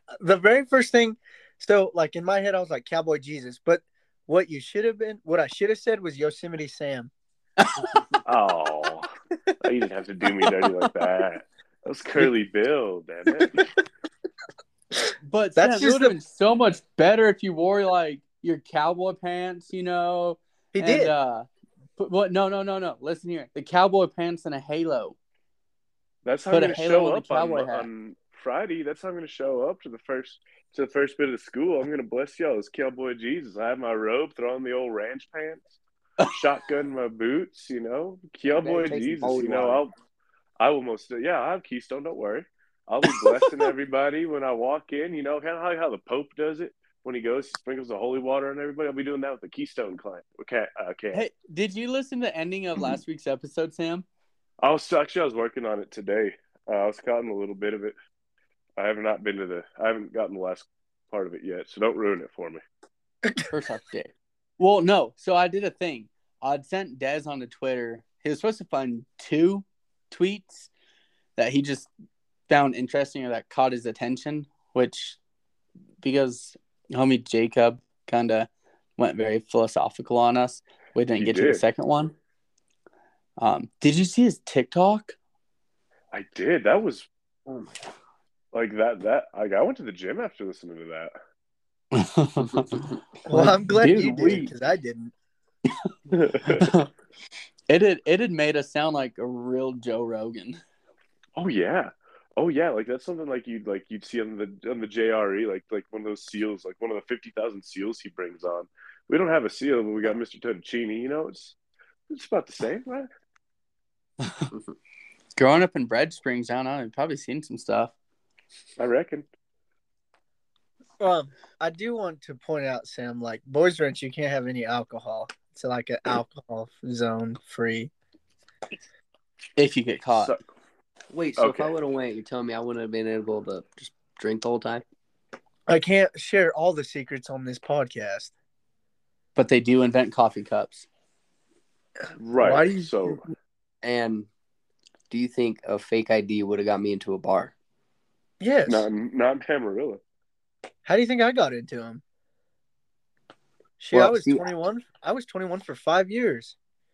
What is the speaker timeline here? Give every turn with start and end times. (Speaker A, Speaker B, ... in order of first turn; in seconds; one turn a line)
Speaker A: 0.2-7.1
Speaker B: 7.6-7.9
Speaker C: 8.2-9.1
Speaker C: 9.6-13.7
Speaker B: 15.2-25.2
Speaker A: 15.6-16.2
Speaker A: 20.7-21.1
Speaker C: 26.2-35.7
Speaker B: 26.5-27.9
Speaker C: 36.3-39.9
Speaker D: 38.5-39.8
Speaker C: 40.6-51.3
Speaker B: 43.0-43.7
Speaker B: 51.1-54.0
Speaker C: 54.6-58.0
Speaker C: 58.8-62.6
Speaker B: 63.5-70.7
Speaker B: 71.4-71.9
Speaker B: 72.5-75.2
Speaker B: 76.0-82.2
Speaker C: 81.2-81.6
Speaker B: 83.4-85.2
Speaker C: 86.1-87.1
Speaker D: 87.5-87.8
Speaker C: 88.5-91.1
Speaker B: 91.9-94.5
Speaker A: 93.3-95.1
Speaker C: 96.1-96.7
Speaker B: 96.5-96.9
Speaker B: 97.7-100.6
Speaker C: 101.4-111.6
Speaker C: 112.1-113.1
Speaker B: 115.4-118.0
Speaker C: 118.8-119.3
Speaker A: 121.0-127.9
Speaker B: 129.6-130.3
Speaker C: 130.2-130.4
Speaker D: 131.1-134.8
Speaker C: 131.4-131.7
Speaker A: 135.7-138.3
Speaker B: 139.4-140.9
Speaker C: 142.2-143.2
Speaker A: 142.4-143.2
Speaker D: 143.8-144.3
Speaker D: 145.1-147.5
Speaker A: 148.4-148.9
Speaker C: 148.7-150.0
Speaker A: 150.9-152.0
Speaker A: 153.8-156.6
Speaker D: 153.9-154.5